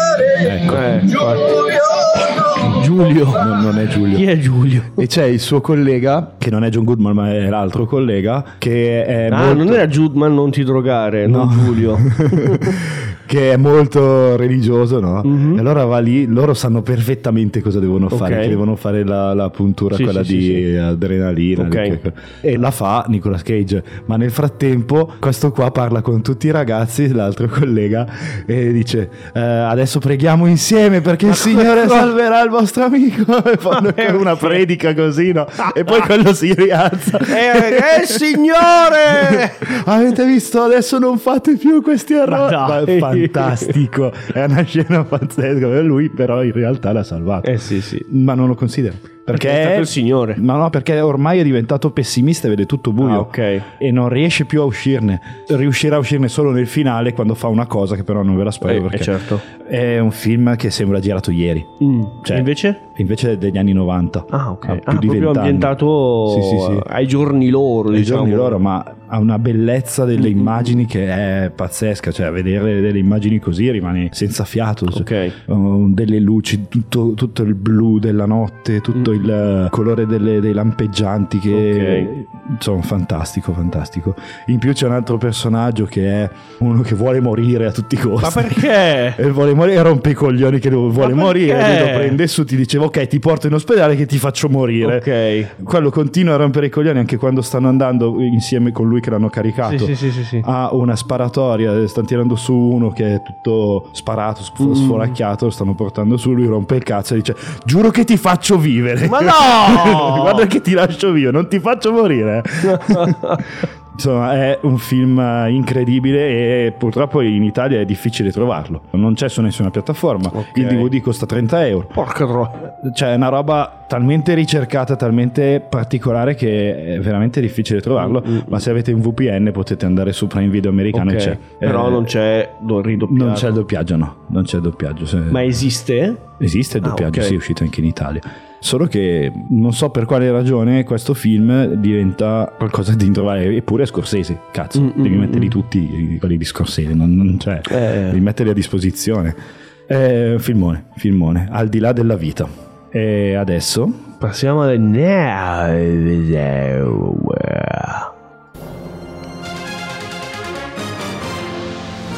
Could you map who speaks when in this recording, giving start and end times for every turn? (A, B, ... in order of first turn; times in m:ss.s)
0:00.3-0:01.0 A
0:00.7-0:03.5 B
0:03.3-0:04.3 A
0:04.1-0:05.0 B
0:05.0-0:09.8 A
0:09.3-0:12.8 B
0:11.2-0:47.5 A
0:15.2-0:15.6 B
0:18.1-0:18.6 B
0:19.9-0:20.6 B
0:21.6-0:22.0 B
0:31.4-0:32.1 B
0:33.7-0:34.6 B
0:35.6-0:35.9 B
0:37.3-0:39.6 B
0:42.3-0:43.7 B
0:47.4-0:48.0 B
0:48.1-1:06.8 A
0:49.3-0:50.4 B
0:53.0-0:53.6 B
0:58.6-0:59.4 B
1:01.8-1:02.8 B
1:04.3-1:08.6 B
1:07.9-1:35.0 A
1:10.2-1:10.8 B
1:14.9-1:15.3 B
1:19.0-1:19.2 B
1:21.5-1:22.1 B
1:28.2-1:29.2 B
1:31.0-1:32.2 B
1:34.8-1:35.5 B
1:35.6-1:53.4 A
1:39.6-1:40.4 B
1:44.6-1:45.2 B
1:49.1-1:50.5 B
1:52.6-1:53.4 B
1:53.9-2:01.9 A
2:00.3-2:00.9 B
2:01.9-2:02.6 B
2:02.8-2:12.0 A
2:08.0-2:08.6 B
2:10.9-2:13.5 B
2:13.1-2:15.6 A
2:15.3-2:16.3 B
2:16.4-2:34.0 A
2:16.8-2:17.4 B
2:24.8-2:25.6 B
2:27.7-2:28.2 B
2:34.2-2:38.1 B